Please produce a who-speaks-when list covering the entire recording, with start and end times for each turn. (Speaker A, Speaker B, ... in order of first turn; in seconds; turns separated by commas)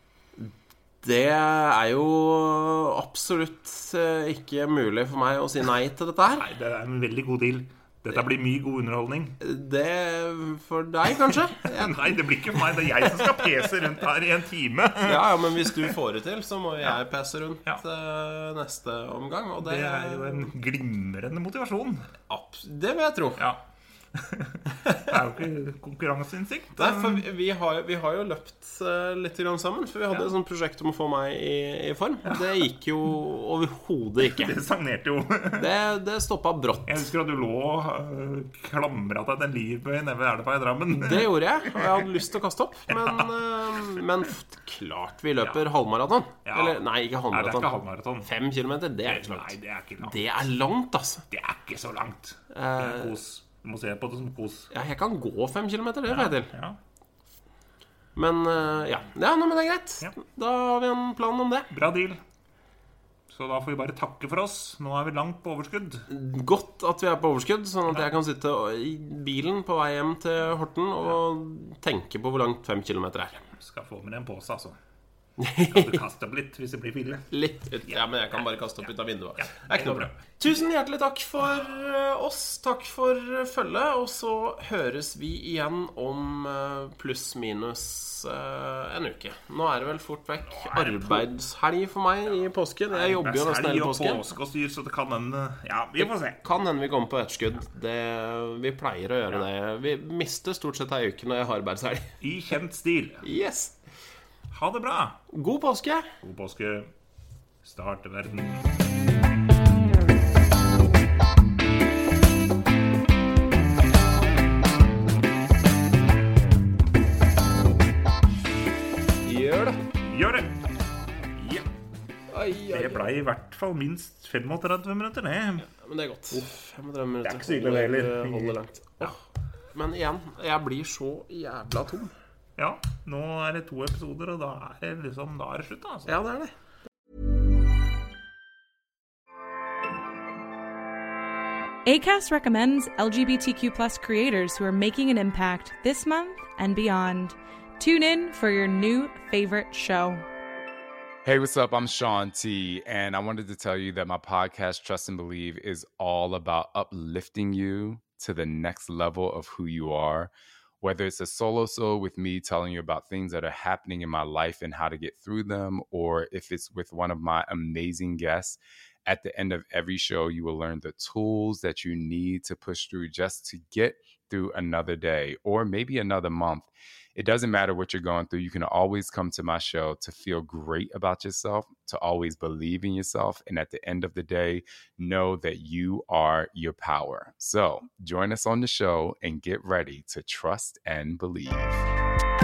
Speaker A: 0.3-6.5, Speaker B: 6.4-9.4, Speaker A: 9.4-13.3, Speaker B: 11.6-15.9, Speaker A: 15.0-20.5, Speaker B: 19.6-22.1, Speaker A: 22.3-23.4, Speaker B: 24.1-27.2, Speaker A: 24.9-25.1, Speaker A: 26.8-34.5, Speaker B: 34.3-35.7, Speaker A: 35.6-37.1, Speaker B: 36.9-42.1, Speaker A: 40.9-51.2, Speaker B: 42.9-43.4, Speaker B: 46.4-48.3, Speaker B: 49.0-50.2, Speaker B: 51.3-54.7, Speaker A: 52.5-53.2, Speaker A: 54.7-56.5, Speaker B: 56.1-56.8, Speaker A: 58.1-61.7, Speaker B: 61.7-62.2, Speaker B: 63.3-66.1, Speaker A: 66.1-73.4, Speaker B: 73.6-74.8, Speaker A: 75.4-76.0, Speaker B: 75.6-77.3, Speaker A: 77.3-94.3, Speaker B: 79.4-80.3, Speaker B: 90.5-91.2, Speaker B: 92.9-96.4, Speaker A: 96.0-102.1, Speaker B: 102.2-103.2, Speaker A: 103.2-103.8, Speaker B: 104.5-105.2, Speaker A: 105.3-106.1, Speaker B: 106.2-106.9, Speaker B: 107.6-108.7, Speaker A: 119.2-119.8, Speaker B: 120.0-120.5, Speaker B: 121.3-121.7, Speaker A: 122.3-123.1, Speaker B: 122.7-125.7, Speaker A: 125.6-132.1, Speaker B: 127.2-129.2, Speaker B: 132.6-136.1, Speaker A: 136.1-136.5, Speaker C: 141.8-150.2, Speaker D: 151.2-191.8